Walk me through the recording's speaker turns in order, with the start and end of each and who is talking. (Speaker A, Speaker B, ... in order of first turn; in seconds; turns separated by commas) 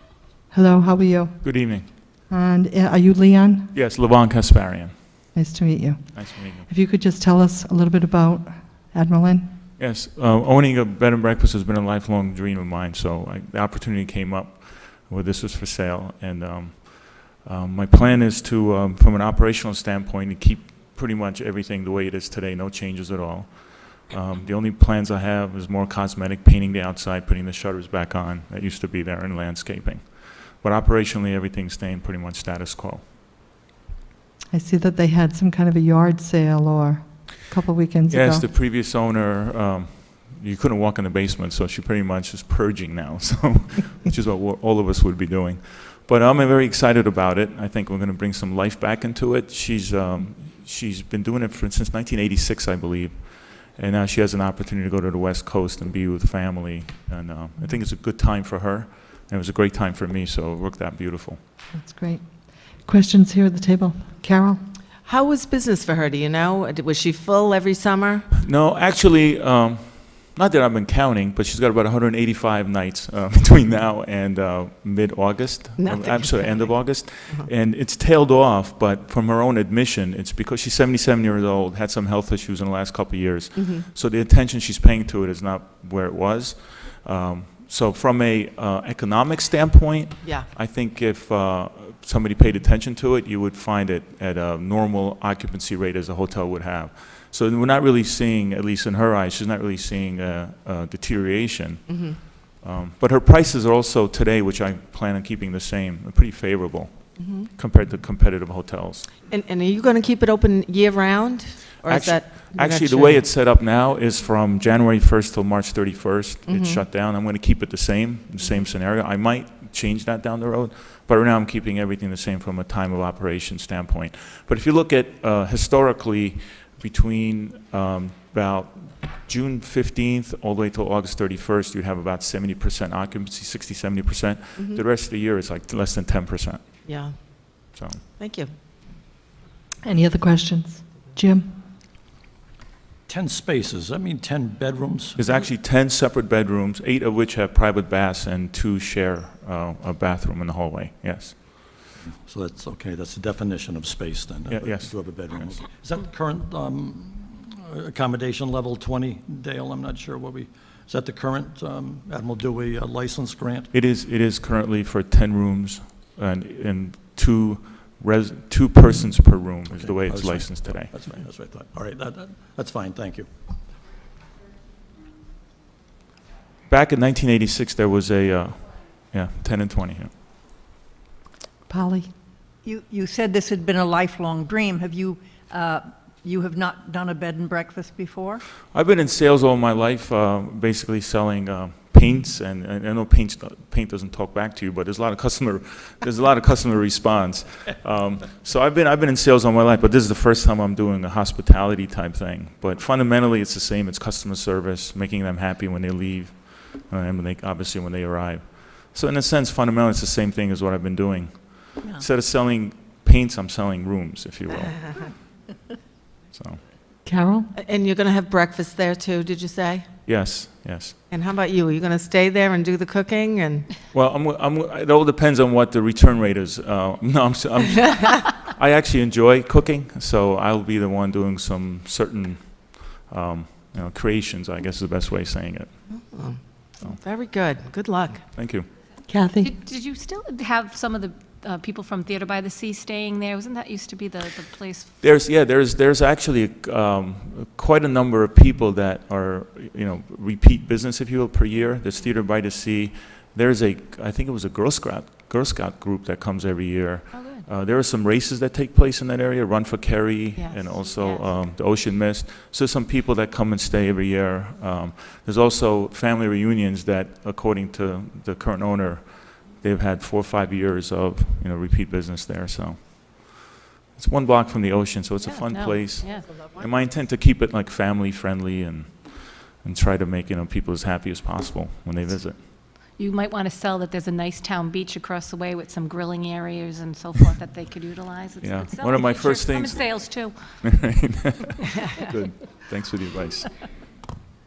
Speaker A: 0.5-1.7, Speaker B: 1.4-1.9, Speaker A: 2.3-3.7, Speaker B: 3.7-5.2, Speaker A: 5.3-9.5, Speaker B: 6.1-6.7, Speaker B: 9.8-33.0, Speaker A: 34.5-38.4, Speaker B: 38.1-61.4, Speaker A: 61.7-64.6, Speaker C: 65.0-68.3, Speaker B: 68.3-109.1, Speaker C: 75.8-77.5, Speaker C: 83.5-83.8, Speaker C: 90.2-90.5, Speaker C: 101.9-102.2, Speaker C: 107.2-107.5, Speaker C: 109.3-113.2, Speaker B: 111.8-136.8, Speaker C: 116.5-116.8, Speaker C: 134.6-134.8, Speaker C: 136.8-138.5, Speaker B: 137.7-138.0, Speaker A: 139.8-141.5, Speaker D: 143.1-145.2, Speaker B: 145.2-151.7, Speaker D: 152.1-163.7, Speaker B: 154.5-155.5, Speaker B: 163.7-170.9, Speaker D: 169.7-173.3, Speaker B: 176.7-180.1, Speaker A: 181.7-182.1, Speaker E: 182.6-188.4, Speaker B: 188.7-215.2, Speaker E: 211.8-212.1, Speaker B: 216.3-216.6, Speaker A: 217.0-217.5, Speaker C: 217.6-219.9, Speaker B: 220.0-221.0, Speaker C: 221.1-223.7, Speaker B: 223.9-235.9, Speaker C: 235.9-238.2, Speaker B: 238.3-238.7, Speaker A: 239.1-239.5, Speaker F: 239.4-245.0, Speaker B: 245.0-282.4, Speaker F: 257.1-257.4, Speaker F: 260.5-261.2, Speaker F: 275.2-276.4, Speaker F: 282.8-290.7, Speaker B: 288.4-293.6